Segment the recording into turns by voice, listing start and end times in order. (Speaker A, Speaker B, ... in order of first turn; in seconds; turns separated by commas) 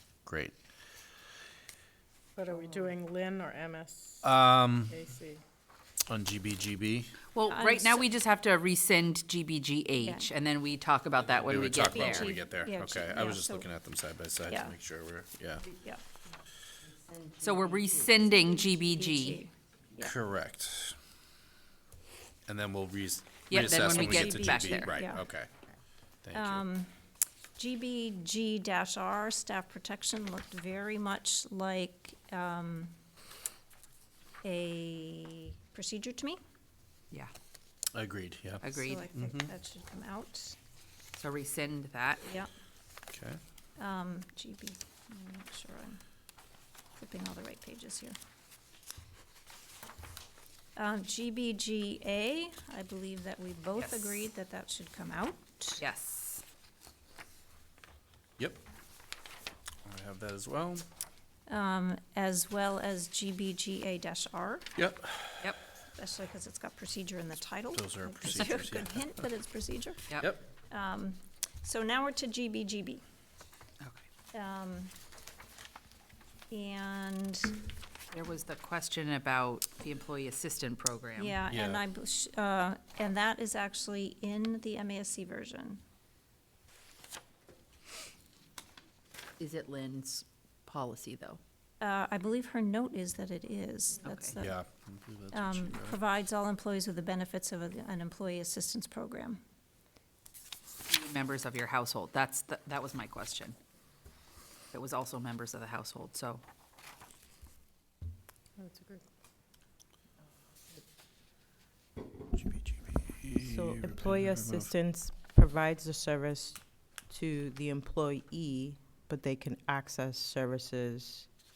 Speaker A: 0.3-0.5, Speaker B: 2.4-4.2, Speaker A: 4.2-5.0, Speaker A: 6.1-7.1, Speaker C: 7.3-12.3, Speaker D: 7.5-8.1, Speaker D: 10.0-10.3, Speaker A: 11.4-15.6, Speaker D: 11.9-13.7, Speaker D: 14.5-14.8, Speaker E: 17.2-17.9, Speaker C: 17.4-19.4, Speaker D: 18.5-20.1, Speaker A: 20.0-21.0, Speaker A: 22.5-25.5, Speaker C: 23.5-25.0, Speaker D: 23.6-25.2, Speaker A: 26.2-26.6, Speaker D: 26.3-26.9, Speaker D: 27.6-33.0, Speaker D: 34.4-36.4, Speaker A: 37.9-39.5, Speaker C: 38.6-39.1, Speaker D: 38.8-40.6, Speaker C: 41.1-42.2, Speaker D: 42.2-42.5, Speaker A: 43.1-43.4, Speaker D: 43.8-46.0, Speaker D: 47.0-48.2, Speaker D: 50.8-55.8, Speaker C: 53.8-54.2, Speaker C: 55.8-56.4, Speaker A: 59.9-60.9, Speaker D: 61.5-64.7, Speaker A: 64.8-65.6, Speaker D: 66.0-70.1, Speaker A: 67.7-69.1, Speaker A: 70.2-70.4, Speaker D: 70.7-73.0, Speaker D: 74.3-74.9, Speaker D: 76.5-77.6, Speaker C: 78.1-81.4, Speaker D: 81.2-85.8, Speaker A: 81.5-81.8, Speaker C: 89.4-91.4, Speaker D: 91.8-94.6, Speaker C: 94.0-94.3, Speaker A: 94.4-96.0, Speaker D: 95.3-99.4, Speaker C: 100.9-103.6, Speaker C: 104.7-106.4, Speaker B: 108.6-109.0, Speaker A: 112.3-114.7, Speaker E: 113.4-121.3